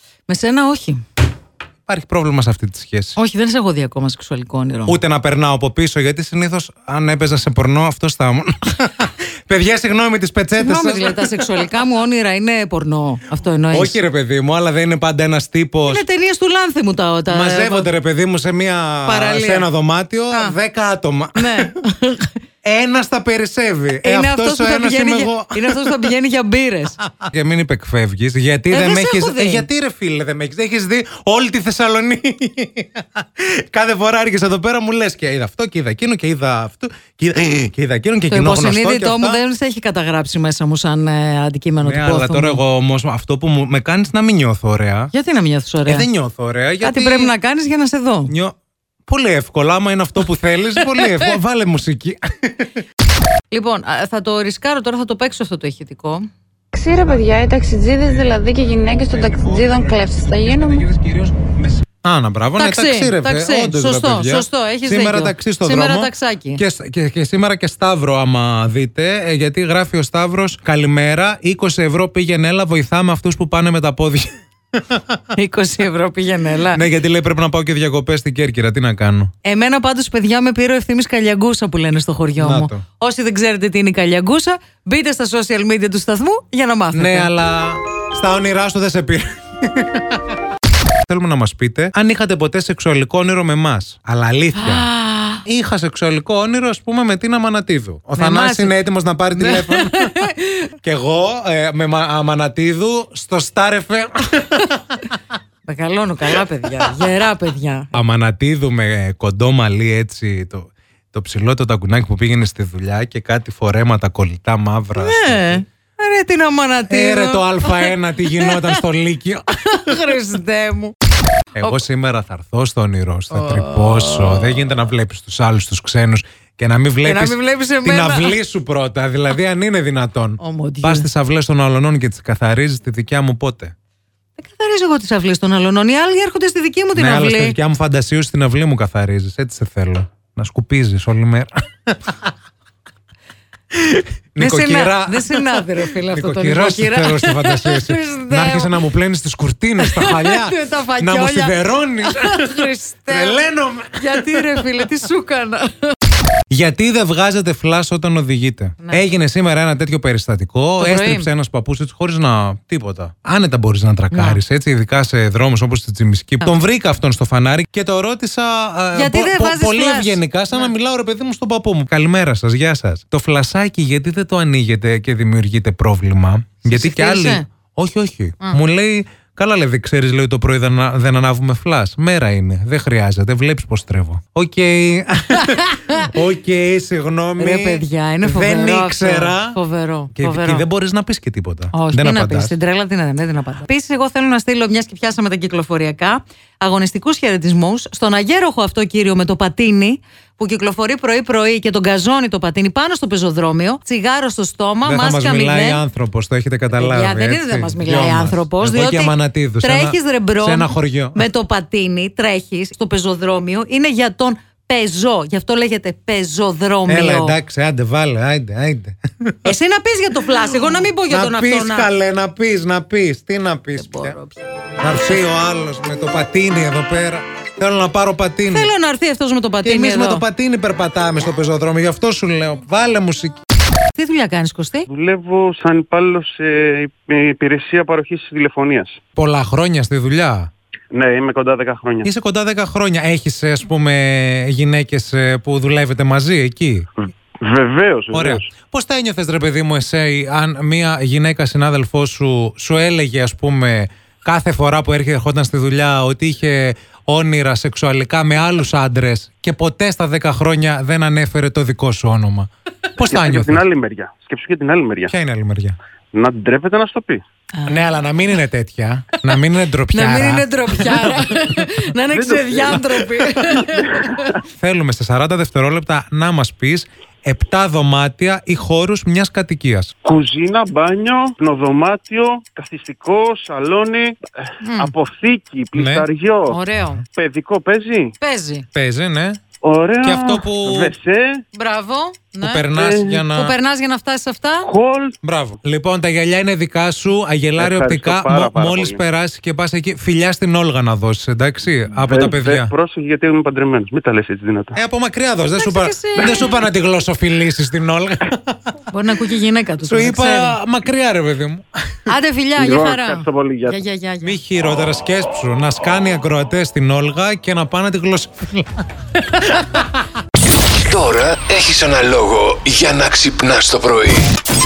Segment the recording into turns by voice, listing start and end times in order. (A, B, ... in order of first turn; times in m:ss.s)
0:00.3-0:01.0 A
0:01.8-0:03.2 B
0:03.2-0:05.0 A
0:04.8-0:11.5 B
0:10.6-0:14.0 A
0:13.7-0:16.0 B
0:15.8-0:17.9 A
0:17.3-0:21.7 B
0:19.0-0:19.7 A
0:21.4-0:22.3 A
0:22.6-0:26.1 B
0:24.0-0:27.0 A
0:27.1-0:39.4 B
0:28.7-0:29.7 A
0:38.3-0:42.6 A
0:41.8-0:45.1 B
0:45.1-0:46.1 A
0:45.8-0:47.3 B
0:46.8-0:48.3 A
0:48.3-0:48.5 B
0:49.0-0:52.8 B
0:50.9-0:51.3 A
0:53.5-0:56.3 A
0:56.7-1:00.8 C
0:56.8-0:57.5 B
0:58.9-1:15.2 B
1:02.6-1:06.6 A
1:15.3-1:16.8 A
1:16.7-1:19.3 B
1:19.4-1:27.3 A
1:22.4-1:22.8 B
1:26.9-1:30.3 B
1:31.0-1:34.9 B
1:34.5-1:35.4 A
1:35.4-1:40.2 B
1:38.2-1:38.8 A
1:39.3-1:40.6 A
1:40.8-1:44.8 B
1:45.6-1:47.9 A
1:47.9-1:55.6 B
1:55.0-1:58.8 A
1:56.9-1:59.9 B
1:59.7-2:00.9 A
2:01.5-2:13.7 B
2:03.3-2:04.5 A
2:07.0-2:08.4 A
2:10.4-2:11.0 A
2:14.4-2:17.6 A
2:16.9-2:22.3 B
2:23.7-2:34.9 B
2:24.4-2:28.7 A
2:29.8-2:33.4 A
2:34.0-2:36.0 A
2:36.5-3:09.6 B
2:40.8-2:41.3 A
2:44.1-2:44.4 A
2:48.9-2:50.7 A
2:56.7-2:57.4 A
3:05.4-3:06.1 A
3:07.4-3:10.6 A
3:10.1-3:12.5 B
3:11.7-3:25.8 A
3:24.8-3:31.2 B
3:26.7-3:37.4 A
3:36.9-3:39.5 B
3:39.4-3:41.9 A
3:40.6-3:44.2 B
3:43.8-3:44.4 A
3:44.8-3:48.7 B
3:48.5-3:50.2 A
3:49.6-3:53.4 B
3:53.9-3:54.9 A
3:54.9-3:59.0 D
3:59.2-4:00.5 B
4:00.9-4:02.1 D
4:02.0-4:06.9 B
4:07.4-4:08.5 D
4:08.1-4:23.6 B
4:23.0-4:25.1 D
4:25.1-4:25.8 B
4:26.1-4:27.2 D
4:27.5-4:27.8 A
4:27.6-4:31.2 B
4:29.9-4:34.3 A
4:32.1-4:33.0 D
4:33.5-4:34.3 D
4:34.4-4:39.9 B
4:40.0-4:46.6 D
4:44.6-4:44.9 A
4:45.7-4:46.0 B
4:46.5-4:47.0 A
4:47.1-4:48.1 D
4:48.2-4:48.6 A
4:48.7-4:49.4 B
4:49.6-4:51.4 D
4:50.0-4:50.9 B
4:51.5-4:52.7 A
4:52.4-4:53.6 B
4:52.7-4:53.2 D
4:53.3-4:54.7 A
4:54.6-4:55.2 D
4:55.2-5:02.7 B
4:57.6-4:59.0 D
5:02.0-5:04.8 D
5:04.8-5:08.6 B
5:05.6-5:06.6 A
5:08.9-5:10.6 A
5:09.8-5:11.6 B
5:12.1-5:14.4 A
5:12.6-5:13.8 D
5:14.2-5:18.8 B
5:19.5-5:19.8 B
5:20.8-5:24.2 E